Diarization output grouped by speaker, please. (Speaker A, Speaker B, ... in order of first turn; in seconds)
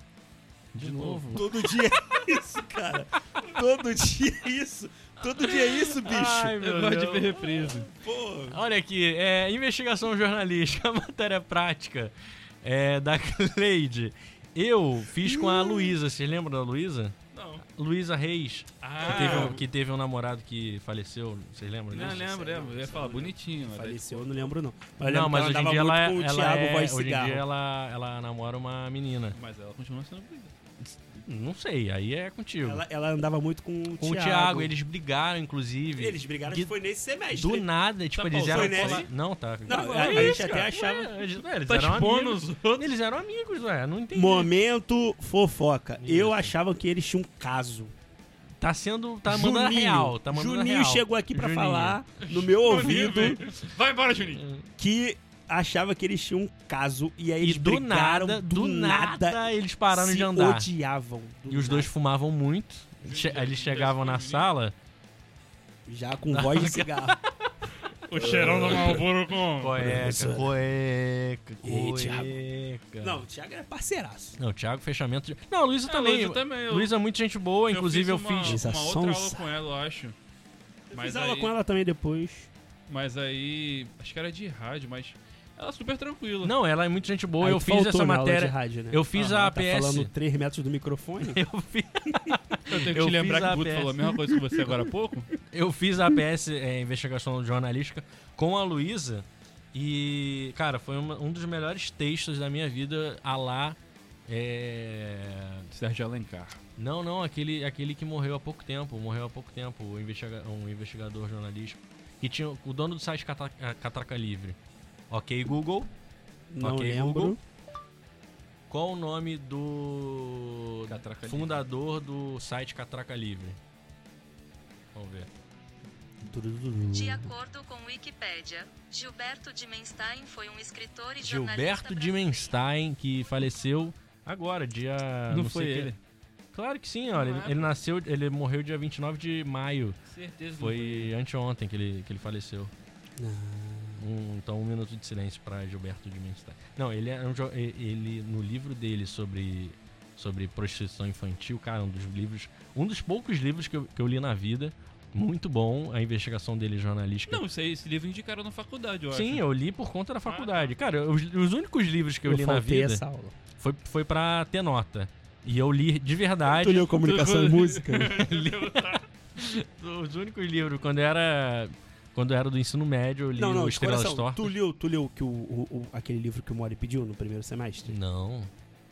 Speaker A: 0.7-1.5, 6.5-7.9, 17.3-17.6, 18.8-19.6, 21.9-24.5, 29.4-30.6, 38.2-39.1, 39.7-40.5, 41.7-42.9, 52.2-54.4, 63.0-64.5, 68.0-69.9, 75.9-77.0, 77.7-80.2, 80.9-81.5, 82.9-86.5, 92.7-95.3, 105.7-106.6, 120.9-121.6, 135.3-136.0, 137.1-137.7, 140.1-141.1, 157.3-159.4, 160.3-160.7, 166.9-169.1
Speaker B: 0.8-1.7, 5.4-7.8, 8.5-17.1, 17.7-22.3, 25.0-29.4, 31.2-32.8, 34.0-36.7, 37.3-44.5, 46.0-46.5, 48.6-52.0, 57.4-60.7, 61.5-64.8, 66.3-67.1, 68.3-69.0, 69.6-73.2, 74.4-78.6, 86.4-90.1, 91.2-94.0, 95.5-105.7, 106.8-114.6, 115.1-115.9, 116.6-117.4, 118.7-123.6, 125.0-125.3, 131.2-135.9, 136.5-140.0, 140.5-142.7, 144.0-157.4, 159.1-163.0, 163.6-166.9, 168.2-174.6, 177.9-178.5
Speaker C: 1.3-6.5, 7.9-8.6, 15.2-16.0, 19.0-19.6, 21.9-27.4, 32.6-34.7, 36.0-37.7, 38.4-39.1, 39.7-41.2, 44.1-47.9, 49.3-53.4, 54.8-61.9, 65.9-67.2, 68.2-69.0, 69.8-70.5, 71.6-72.4, 73.0-74.4, 78.4-79.5, 80.9-82.5, 87.4-91.4, 116.5-117.4, 126.3-127.3, 143.2-144.0, 162.3-163.3, 166.4-168.3, 173.4-178.0
Speaker D: 126.9-132.6